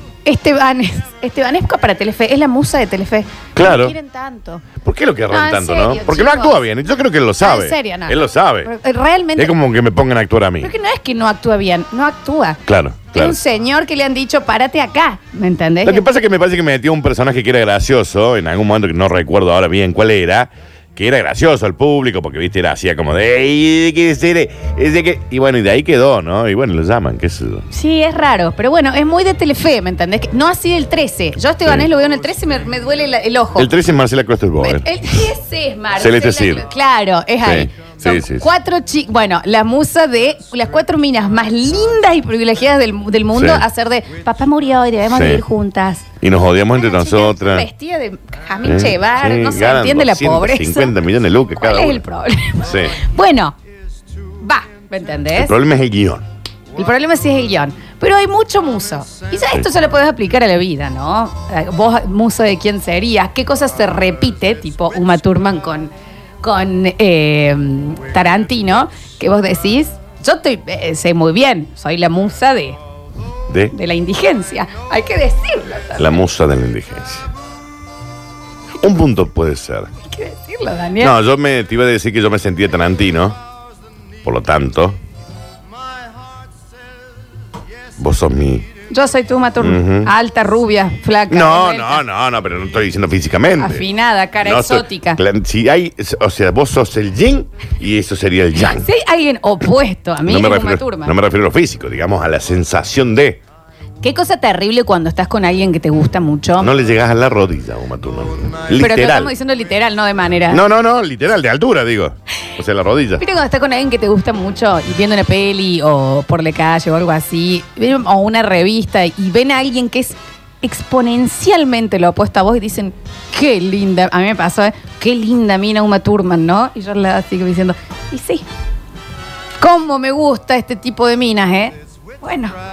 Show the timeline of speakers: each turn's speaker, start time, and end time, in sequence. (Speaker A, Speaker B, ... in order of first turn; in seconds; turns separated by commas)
Speaker A: 0.2-4.6, Speaker B: 3.5-3.9, Speaker B: 4.8-8.7, Speaker A: 5.3-6.6, Speaker A: 7.4-9.5, Speaker B: 9.3-10.7, Speaker A: 10.6-12.6, Speaker B: 12.7-13.4, Speaker A: 13.1-16.0, Speaker B: 15.8-27.6, Speaker A: 27.7-33.7, Speaker B: 33.5-34.9, Speaker A: 34.6-46.0, Speaker B: 36.0-36.6, Speaker B: 37.4-38.5, Speaker B: 43.3-43.6, Speaker B: 45.1-45.4, Speaker B: 46.2-47.7, Speaker A: 46.7-50.9, Speaker B: 48.6-52.0, Speaker A: 51.5-53.5, Speaker B: 52.6-53.0, Speaker A: 54.4-55.5, Speaker B: 55.3-56.2, Speaker A: 56.8-65.9, Speaker A: 66.4-72.8, Speaker B: 73.5-73.7, Speaker A: 73.7-76.2, Speaker B: 76.0-77.3, Speaker B: 78.8-79.9, Speaker A: 80.0-81.2, Speaker B: 81.0-83.4, Speaker B: 84.2-85.0, Speaker B: 88.0-88.7, Speaker A: 88.9-92.0, Speaker B: 89.6-90.1, Speaker B: 91.3-93.9, Speaker A: 93.6-95.2, Speaker B: 94.4-98.9, Speaker A: 98.7-101.1, Speaker B: 100.2-103.4, Speaker A: 104.0-106.7, Speaker B: 106.6-109.3, Speaker A: 108.8-110.6, Speaker B: 110.5-113.2, Speaker A: 113.2-128.4, Speaker A: 129.6-132.5